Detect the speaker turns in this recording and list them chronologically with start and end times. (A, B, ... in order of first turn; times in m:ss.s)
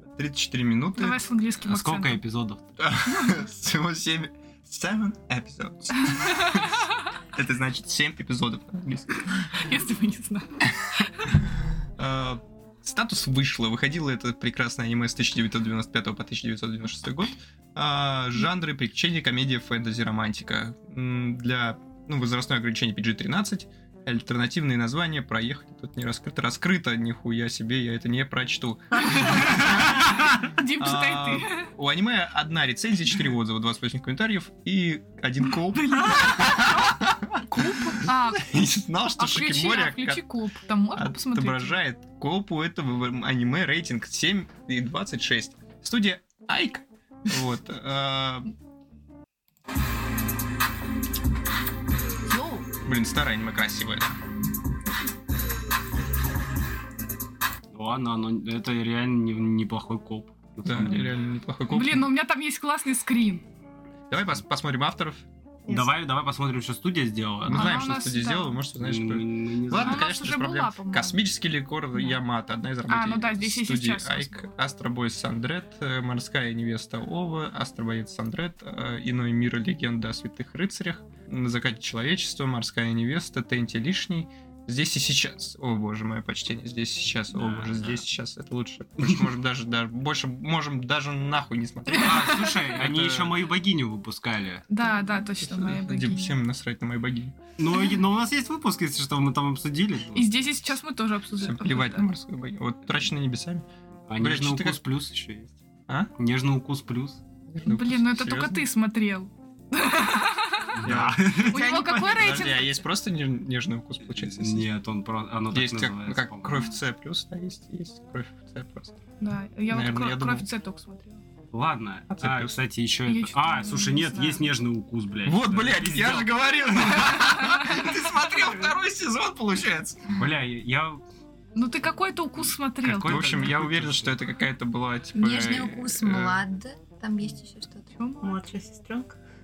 0:00.1-0:01.2 A
0:01.0-0:02.2 B
0:01.7-0:02.6 C
0:02.8-0:09.5 A
0:06.4-0:06.6 B
0:09.5-0:11.4 B
0:12.0-0:30.0 A
0:30.5-0:31.7 B
0:30.8-0:40.2 A
0:35.8-0:38.6 B
0:39.2-0:41.8 B
0:40.9-0:48.5 A
0:52.8-0:54.2 A
0:57.7-1:01.2 C
1:00.6-1:02.1 A
1:01.7-1:03.4 B
1:04.1-1:05.3 A
1:05.7-1:07.8 C
1:07.4-1:33.4 A
1:07.5-1:08.6 B
1:08.8-1:10.0 C
1:09.7-1:11.2 B
1:12.9-1:14.5 B
1:27.4-1:28.0 C
1:31.9-1:34.7 C
1:34.7-1:36.4 B
1:35.4-1:37.4 A
1:37.6-1:40.3 C
1:40.2-1:42.1 B
1:41.4-1:43.7 A
1:44.1-1:45.5 C
1:44.2-1:44.8 A
1:46.2-1:47.2 C
1:47.5-1:48.6 A
1:47.6-1:50.8 B
1:50.8-1:51.6 C
1:50.8-1:54.7 A
1:51.4-1:52.8 B
1:51.5-1:52.5 D
1:54.1-1:56.6 C
1:55.5-1:59.0 A
1:59.2-2:01.2 B
1:59.7-2:00.5 A
2:01.5-2:06.4 C
2:02.1-2:02.6 A
2:03.1-2:04.5 B
2:05.3-2:10.2 A
2:10.2-2:11.0 C
2:11.6-2:13.4 B
2:12.8-2:14.2 C
2:13.0-2:16.4 A
2:15.2-2:17.9 E
2:17.9-2:18.4 B
2:18.2-2:19.2 D